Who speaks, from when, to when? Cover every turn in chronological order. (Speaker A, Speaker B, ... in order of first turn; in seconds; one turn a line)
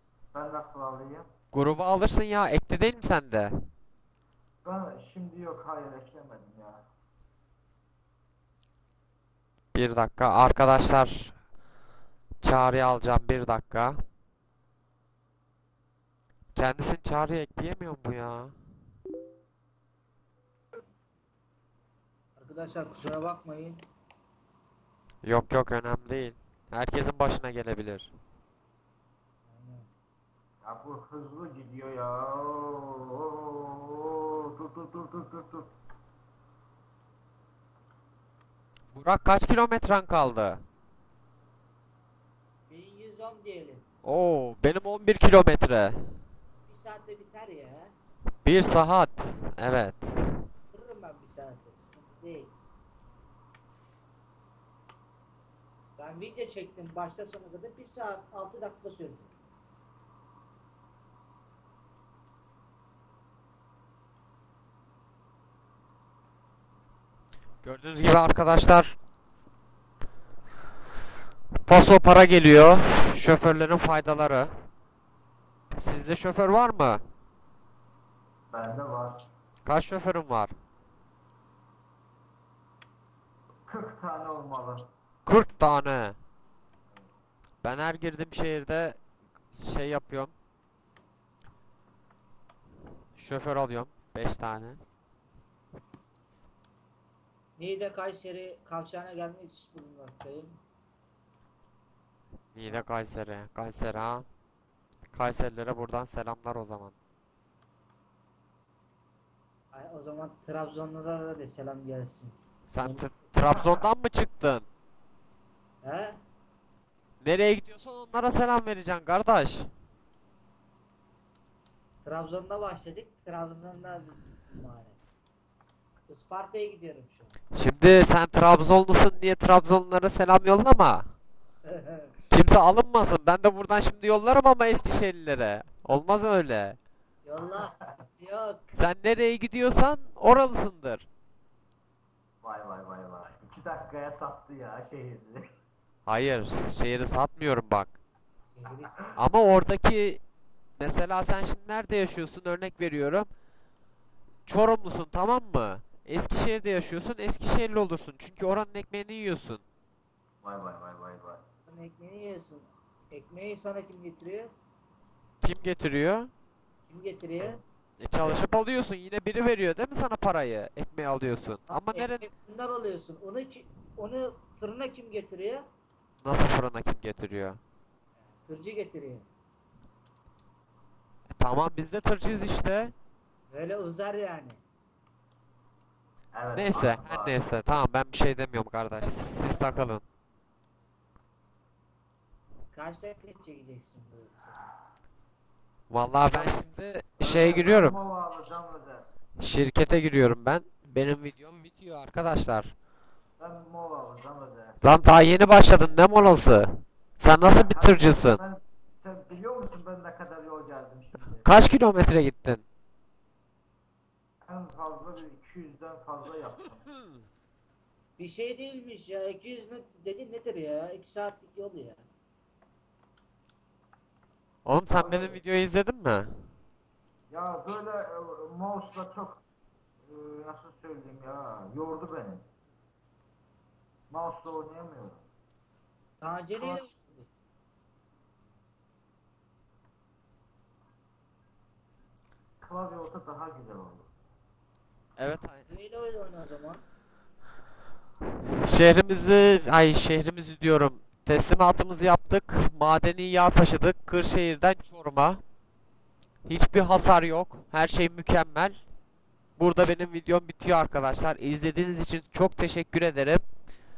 Speaker A: 0.3-1.3
Speaker B: 1.5-3.7
Speaker A: 4.6-6.8
Speaker B: 9.7-11.3
Speaker B: 12.4-14.0
Speaker B: 16.5-18.5
Speaker C: 22.4-23.8
Speaker B: 25.2-28.1
Speaker C: 29.5-29.9
Speaker A: 30.6-35.7
Speaker B: 38.9-40.6
Speaker C: 42.7-43.9
Speaker B: 44.0-46.0
Speaker C: 46.6-47.9
Speaker B: 48.4-50.1
Speaker C: 50.7-52.5
Speaker C: 56.0-59.3
Speaker B: 67.6-69.0
Speaker B: 71.7-74.5
Speaker B: 75.8-77.0
Speaker A: 78.5-79.3
Speaker B: 79.6-80.5
Speaker A: 83.7-84.9
Speaker B: 85.2-86.2
Speaker B: 87.6-89.0
Speaker B: 89.6-90.3
Speaker B: 93.2-94.8
Speaker C: 97.6-100.6
Speaker B: 102.5-104.3
Speaker B: 105.1-106.9
Speaker C: 109.7-113.3
Speaker B: 112.7-114.7
Speaker C: 115.8-116.2
Speaker B: 117.2-119.7
Speaker C: 122.0-125.0
Speaker C: 126.1-127.3
Speaker B: 127.5-131.1
Speaker C: 131.7-132.1
Speaker B: 132.3-136.8
Speaker C: 137.2-138.7
Speaker B: 138.7-141.1
Speaker A: 142.4-145.4
Speaker B: 146.1-147.9
Speaker C: 148.6-149.0
Speaker B: 149.2-150.2
Speaker B: 150.8-153.3
Speaker B: 154.5-159.6
Speaker A: 160.4-161.4
Speaker C: 161.7-164.5
Speaker B: 165.4-166.3
Speaker C: 166.9-167.6
Speaker A: 167.3-167.6
Speaker B: 168.0-172.2
Speaker A: 168.2-168.6
Speaker C: 171.7-175.6
Speaker B: 176.2-177.6
Speaker C: 178.4-179.3
Speaker B: 181.4-182.9
Speaker C: 183.5-184.6
Speaker A: 186.3-187.5
Speaker B: 186.5-190.0
Speaker C: 192.7-194.7
Speaker B: 195.9-197.9
Speaker A: 196.3-196.6
Speaker A: 197.2-199.2
Speaker B: 199.4-202.7
Speaker A: 203.4-205.4
Speaker B: 204.8-208.4
Speaker A: 207.5-211.5
Speaker B: 211.4-212.6
Speaker A: 214.4-216.9
Speaker C: 218.2-222.0
Speaker B: 224.6-226.5
Speaker A: 224.9-225.4
Speaker A: 227.3-229.4
Speaker A: 230.0-232.4
Speaker A: 234.1-235.2
Speaker C: 236.2-237.3
Speaker A: 242.6-244.1
Speaker B: 245.2-245.6
Speaker C: 245.7-246.8
Speaker B: 248.6-255.4
Speaker B: 256.4-258.8
Speaker B: 259.6-263.4